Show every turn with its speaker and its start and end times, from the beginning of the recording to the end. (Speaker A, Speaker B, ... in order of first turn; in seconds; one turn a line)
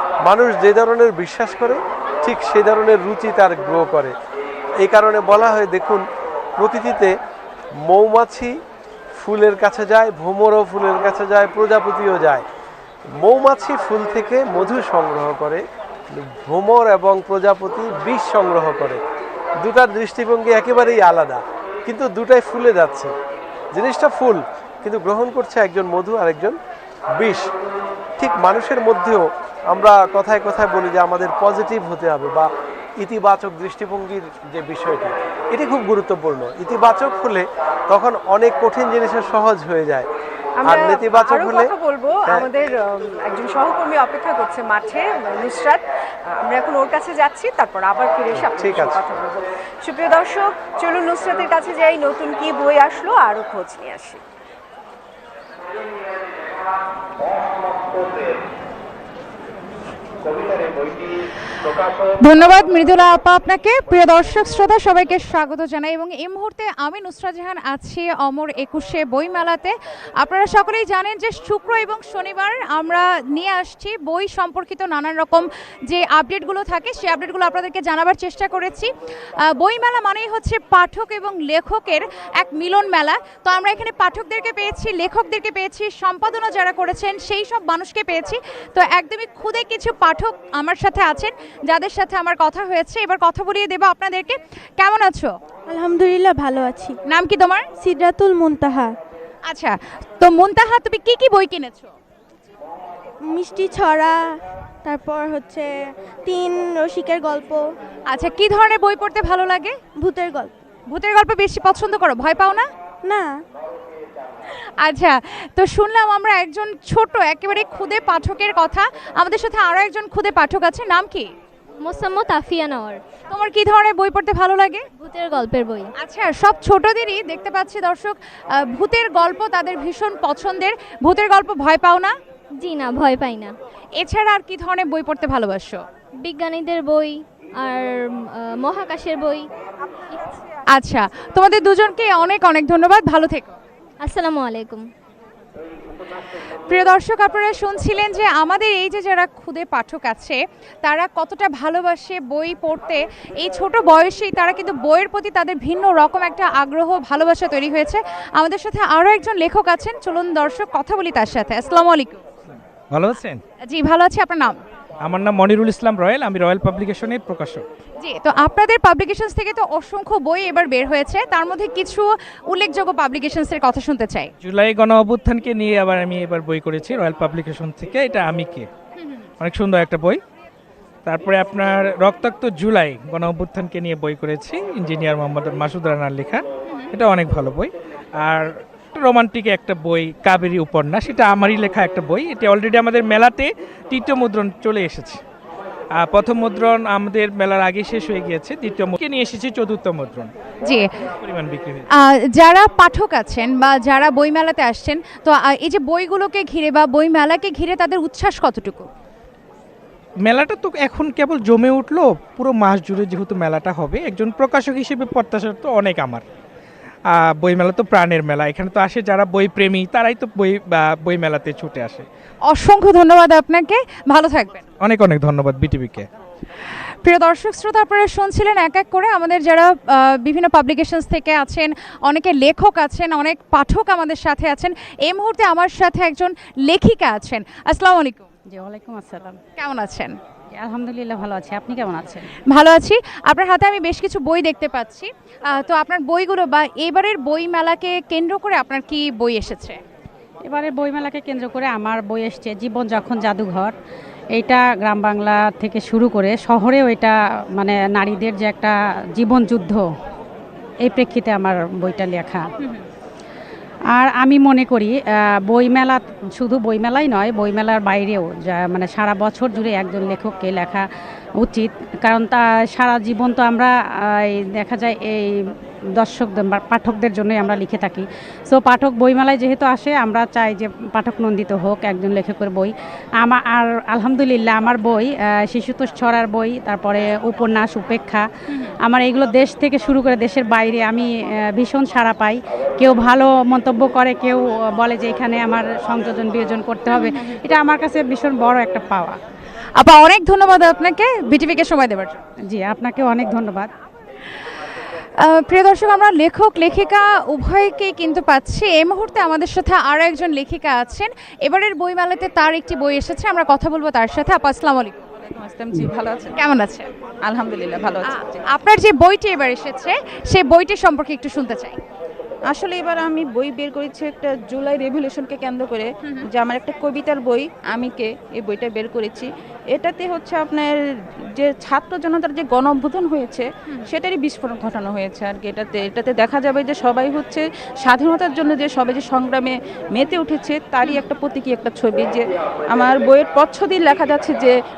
Speaker A: 0.2-4.2
Speaker A: 4.8-6.0
Speaker A: 6.6-7.1
Speaker A: 7.9-8.6
Speaker A: 9.2-12.4
Speaker A: 13.2-19.0
Speaker A: 19.6-23.1
Speaker A: 23.7-26.6
Speaker A: 27.2-27.5
Speaker A: 28.2-40.1
Speaker B: 40.6-54.2
Speaker A: 40.6-41.7
Speaker A: 48.3-49.0
Speaker C: 62.2-78.9
Speaker C: 79.4-95.3
Speaker D: 95.7-97.0
Speaker C: 97.1-97.7
Speaker D: 97.8-99.0
Speaker C: 99.5-101.9
Speaker D: 103.3-104.2
Speaker D: 104.8-105.7
Speaker D: 106.3-107.6
Speaker C: 108.1-109.8
Speaker D: 110.0-110.6
Speaker C: 110.9-112.7
Speaker D: 113.0-113.4
Speaker C: 114.8-121.3
Speaker E: 121.8-123.0
Speaker C: 123.3-124.9
Speaker E: 124.9-125.9
Speaker C: 126.0-132.2
Speaker E: 132.6-133.5
Speaker C: 134.0-135.8
Speaker E: 136.2-139.5
Speaker E: 140.1-140.4
Speaker C: 140.7-143.6
Speaker E: 144.0-144.9
Speaker C: 146.7-162.2
Speaker F: 162.9-163.4
Speaker C: 163.7-164.6
Speaker F: 165.0-167.7
Speaker C: 168.0-174.3
Speaker F: 174.4-178.7
Speaker F: 179.4-180.2
Speaker F: 181.1-195.2
Speaker F: 196.0-200.3
Speaker C: 200.6-201.1
Speaker F: 201.2-201.9
Speaker C: 201.9-208.9
Speaker F: 210.2-216.2
Speaker F: 217.1-222.1
Speaker C: 222.5-224.7
Speaker F: 224.8-226.1
Speaker C: 227.1-238.3
Speaker G: 238.5-239.4
Speaker C: 239.6-240.2
Speaker G: 240.6-242.3
Speaker C: 242.5-249.8
Speaker G: 250.4-253.7
Speaker G: 254.3-259.9
Speaker G: 260.8-262.5
Speaker C: 262.6-262.9
Speaker G: 263.9-265.0
Speaker G: 265.5-270.9
Speaker G: 271.4-288.2
Speaker G: 288.8-299.2
Speaker C: 296.9-297.4
Speaker C: 299.8-302.2
Speaker G: 302.5-303.7
Speaker C: 305.2-315.0
Speaker H: 315.3-316.4
Speaker C: 316.3-316.9
Speaker H: 317.2-318.4
Speaker C: 318.0-321.8
Speaker H: 322.5-330.8
Speaker H: 331.4-344.6